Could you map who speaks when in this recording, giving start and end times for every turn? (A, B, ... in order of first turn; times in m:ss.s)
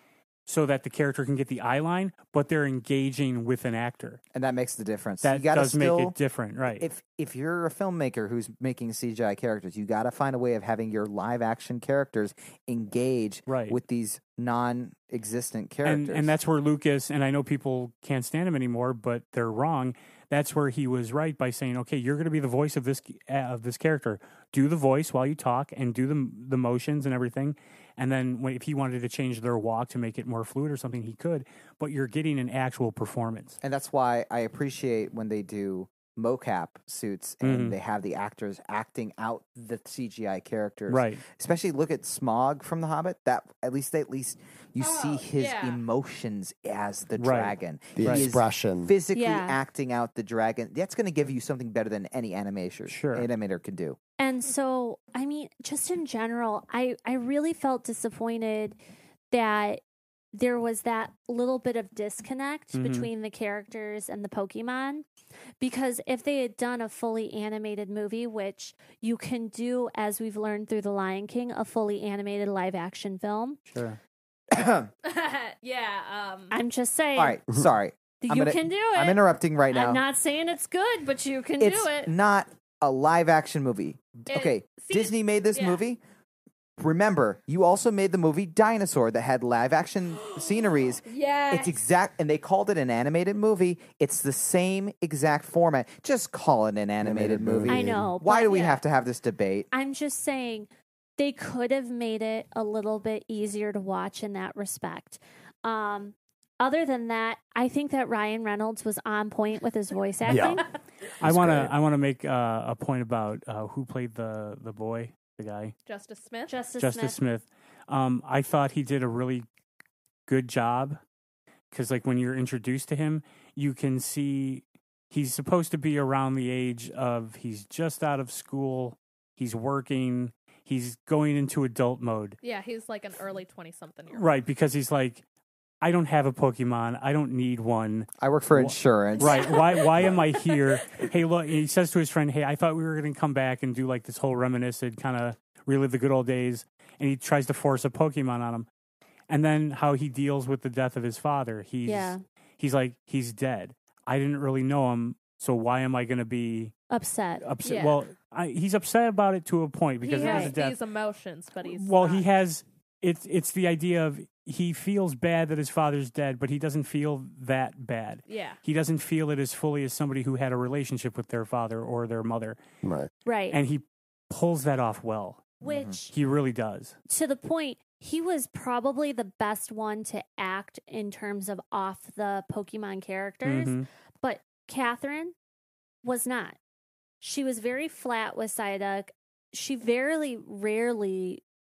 0:00.5-0:04.2 A
0:04.3-0:06.2 B
0:05.2-0:06.9 A
0:06.8-0:16.3 B
0:13.5-0:13.8 A
0:15.8-0:33.6 A
0:33.6-0:54.0 B
0:37.4-0:37.8 A
0:40.9-0:41.2 A
0:44.8-0:45.8 C
0:47.2-0:48.3 A
0:48.0-0:48.9 D
0:49.1-0:49.6 E
0:52.9-0:53.3 A
0:54.2-0:58.8 E
0:59.3-0:59.8 E
1:00.3-1:05.0 E
1:02.8-1:03.1 A
1:05.6-1:13.6 E
1:13.7-1:14.0 A
1:14.5-1:14.9 B
1:15.0-1:16.6 C
1:16.5-1:17.4 E
1:17.2-1:20.0 B
1:18.2-1:22.1 E
1:21.6-1:26.0 B
1:24.3-1:25.8 C
1:26.8-1:39.7 B
1:31.0-1:31.8 C
1:37.0-1:38.1 D
1:37.7-1:38.8 E
1:39.7-1:50.7 E
1:50.3-1:50.6 D
1:51.2-1:55.8 A
1:51.2-1:51.7 D
1:55.9-1:56.6 C
1:56.5-1:57.2 E
1:56.8-1:59.5 A
2:00.3-2:01.0 A
2:01.7-2:12.4 A
2:12.4-2:14.3 C
2:14.1-2:15.2 A
2:15.8-2:28.7 A
2:18.2-2:20.2 B
2:19.2-2:20.1 C
2:29.3-2:36.8 A
2:31.8-2:32.2 E
2:36.9-2:37.5 E
2:37.4-2:40.8 A
2:37.6-2:38.0 C
2:40.0-2:42.3 C
2:40.2-2:40.6 E
2:41.6-2:52.6 A
2:48.3-2:48.6 C
2:52.8-2:53.1 D
2:53.2-2:53.6 E
2:53.5-2:55.6 A
2:55.6-2:56.1 E
2:55.7-2:55.9 B
2:56.1-2:57.0 A
2:57.1-3:05.3 E
3:03.4-3:03.9 A
3:06.0-3:06.6 E
3:07.2-3:11.4 E